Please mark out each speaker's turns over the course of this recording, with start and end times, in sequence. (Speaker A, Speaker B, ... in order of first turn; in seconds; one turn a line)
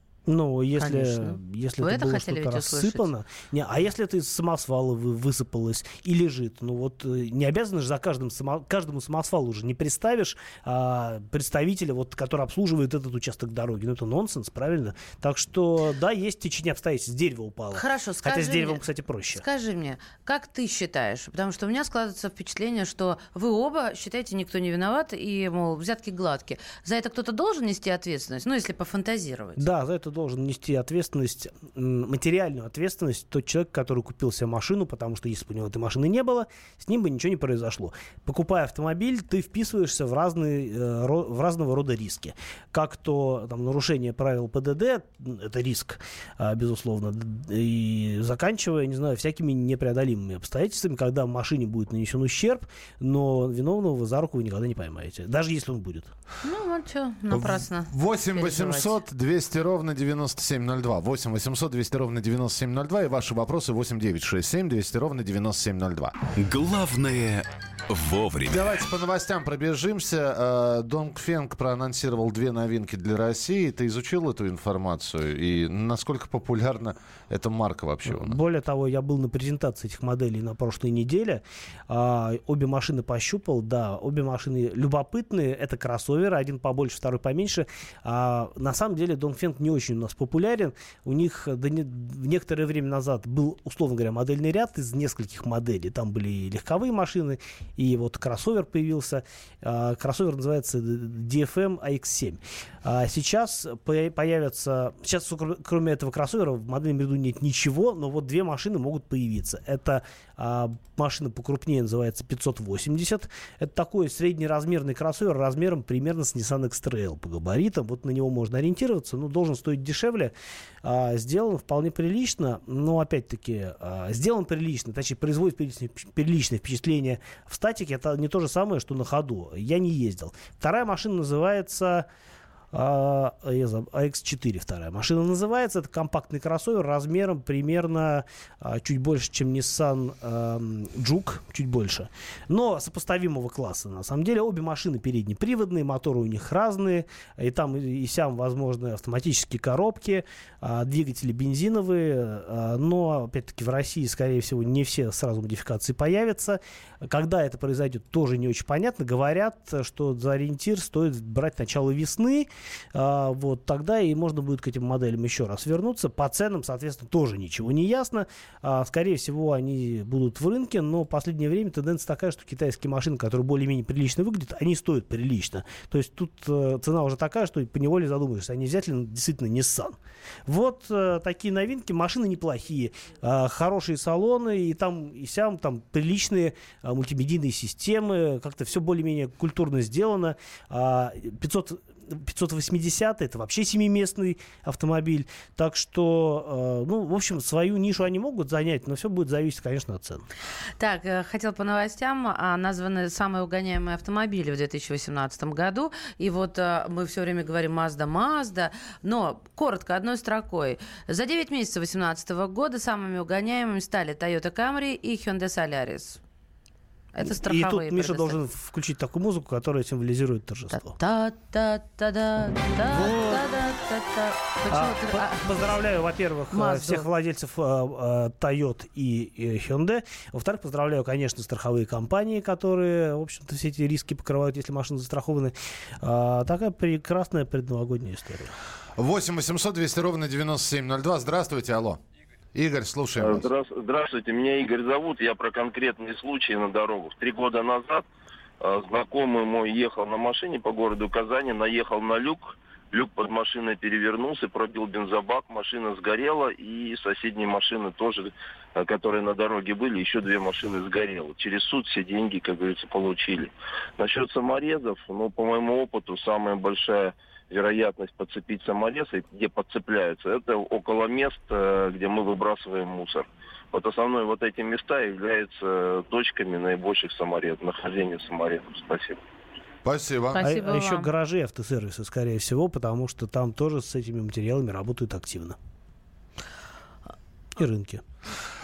Speaker A: 0.3-19.4
Speaker B: 0.8-3.1
Speaker B: 17.7-18.8
Speaker B: 19.3-29.7
Speaker A: 29.6-56.1
Speaker B: 56.4-59.0
Speaker C: 57.3-66.1
Speaker D: 66.4-68.7
Speaker C: 68.5-78.4
Speaker A: 78.1-120.3
Speaker A: 120.8-132.1
Speaker A: 132.7-180.0
Speaker A: 180.5-200.2
Speaker B: 200.8-216.2
Speaker B: 217.1-218.4
Speaker A: 217.2-220.9
Speaker B: 220.7-225.7
Speaker A: 222.9-223.5
Speaker A: 224.7-238.5
Speaker B: 226.5-227.1
Speaker C: 239.0-242.0
Speaker C: 242.5-243.5
Speaker E: 243.2-248.1
Speaker E: 248.6-279.2
Speaker C: 279.8-280.5
Speaker B: 280.3-281.1
Speaker A: 280.4-285.6
Speaker A: 287.6-288.0